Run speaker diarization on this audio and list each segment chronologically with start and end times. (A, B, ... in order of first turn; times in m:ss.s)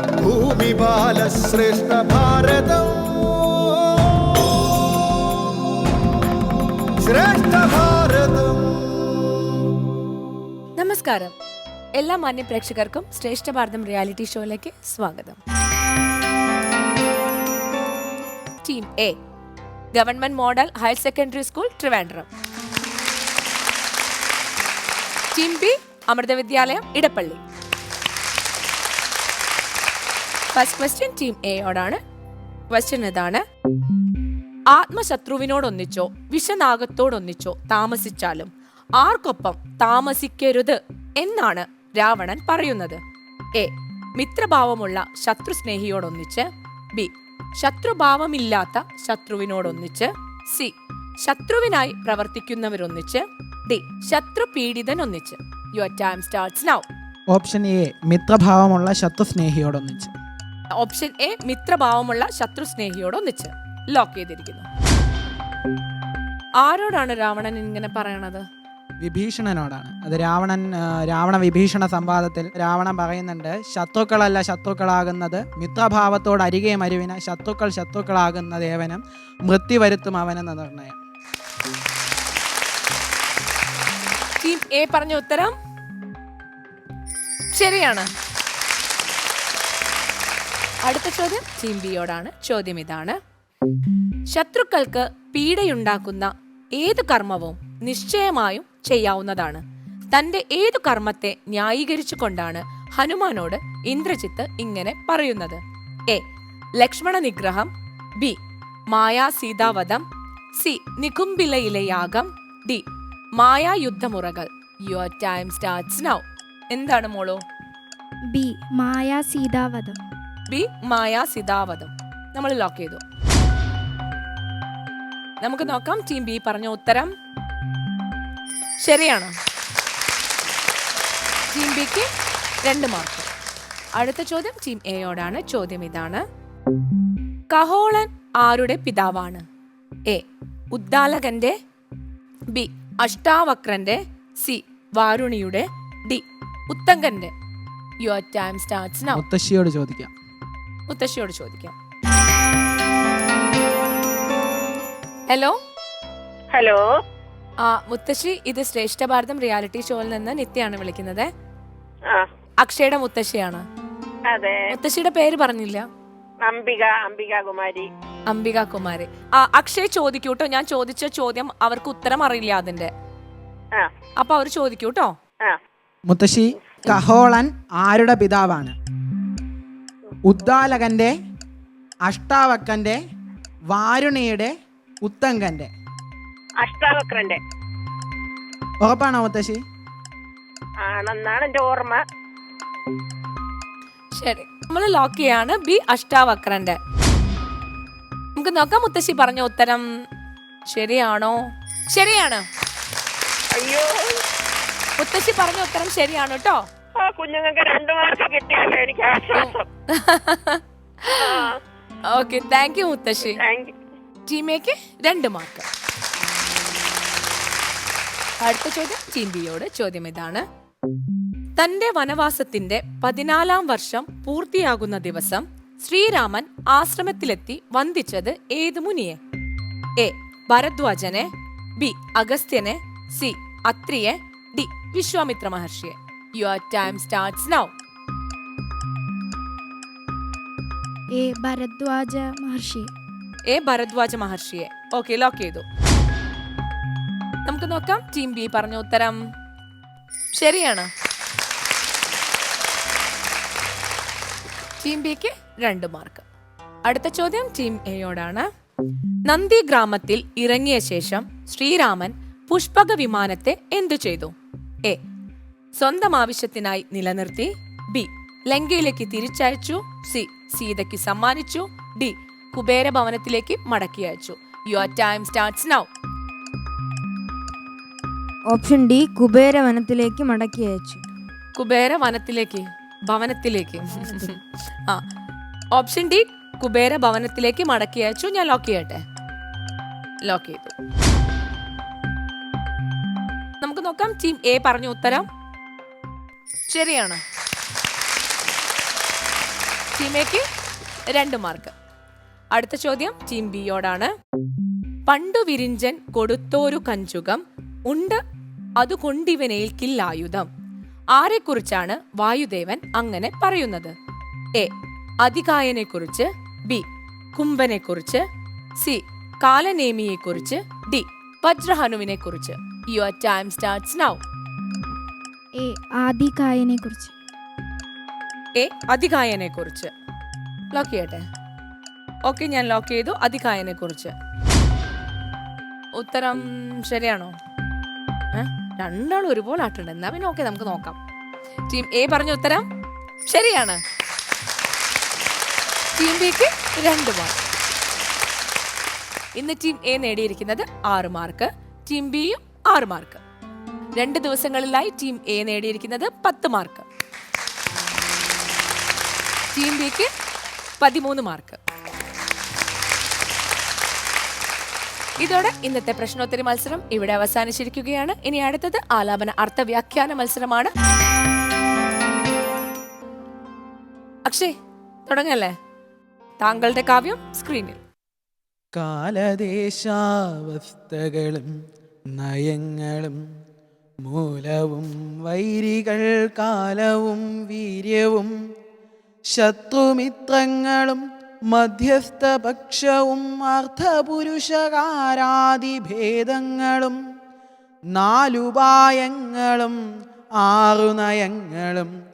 0:00.2-0:05.5 A
0:07.0-0:09.4 A
0:10.8-0:11.3 B
0:12.0-0:15.4 B
0:18.6-0:19.2 B
0:19.9-0:22.3 B
0:25.3-0:27.4 B
0:30.5-0:32.0 B
0:32.7-0:33.4 B
0:34.7-0:43.0 B
0:43.6-0:56.9 B
0:57.3-1:00.1 C
1:00.8-1:04.7 B
1:06.6-1:08.4 B
1:09.0-1:21.0 C
1:24.4-1:25.6 B
1:27.5-1:28.1 B
1:30.8-1:33.2 B
1:34.3-1:46.2 B
1:46.8-1:48.4 B
1:48.9-1:50.0 B
1:50.6-1:52.9 B
1:53.4-1:57.4 B
1:58.3-2:00.0 D
2:00.5-2:03.0 B
2:05.4-2:07.1 B
2:08.8-2:09.3 B
2:11.5-2:12.1 B
2:12.6-2:13.3 B
2:14.0-2:16.2 B
2:17.5-2:19.4 B
2:20.1-2:21.6 B
2:22.5-2:27.3 B
2:28.0-2:29.2 B
2:29.1-2:30.1 C
2:30.9-2:31.8 B
2:35.3-2:35.6 B
2:36.5-2:36.8 E
2:37.6-2:41.3 B
2:42.6-2:43.6 B
2:44.3-2:44.6 E
2:44.7-2:45.9 B
2:46.4-2:47.9 E
2:48.3-2:52.9 B
2:54.2-2:55.1 B
2:56.1-2:58.8 C
3:00.3-3:01.1 C
3:02.1-3:03.0 C
3:03.7-3:04.5 C
3:05.0-3:05.7 C
3:06.6-3:07.4 E
3:08.8-3:09.6 C
3:10.8-3:12.0 E
3:14.2-3:16.8 B
3:18.4-3:19.9 B
3:20.7-3:22.4 B
3:23.6-3:24.2 E
3:25.0-3:26.7 B
3:27.0-3:29.6 E
3:29.4-3:31.4 B
3:31.2-3:31.5 E
3:32.1-3:33.4 B
3:33.4-3:33.7 E
3:34.3-3:35.7 B
3:38.4-3:40.4 B
3:41.6-3:49.2 B
3:50.0-3:57.7 B
4:01.2-4:02.9 D
4:03.5-4:05.6 B
4:07.5-4:09.2 B
4:10.4-4:10.9 B
4:14.8-4:16.2 B
4:16.9-4:18.5 B
4:19.3-4:24.3 B
4:25.8-4:35.9 B
4:38.5-4:41.0 F
4:41.6-4:45.0 B
4:45.8-4:49.0 B
4:50.3-4:50.7 B
4:53.6-4:55.3 B
4:56.7-4:57.2 B
5:00.0-5:00.4 B
5:01.1-5:01.7 B
5:02.5-5:04.1 B
5:05.1-5:08.2 B
5:08.8-5:10.5 B
5:11.2-5:13.9 B
5:15.2-5:18.2 B
5:18.8-5:24.2 B
5:25.6-5:27.1 D
5:28.6-5:29.9 B
5:30.7-5:31.2 B
5:32.3-5:34.1 B
5:36.0-5:37.3 B
5:38.3-5:41.0 B
5:41.7-5:42.7 B
5:43.3-5:43.8 B
5:46.0-5:47.4 B
5:49.4-5:53.2 B
5:54.0-5:56.9 B
5:59.5-6:00.1 B
6:00.8-6:01.6 B
6:05.2-6:10.7 B
6:14.3-6:14.5 B
6:15.1-6:15.5 B
6:16.4-6:17.8 B
6:18.7-6:21.5 C
6:22.1-6:23.2 C
6:24.0-6:28.3 C
6:29.3-6:37.0 C
6:37.9-6:39.8 C
6:40.4-6:41.9 C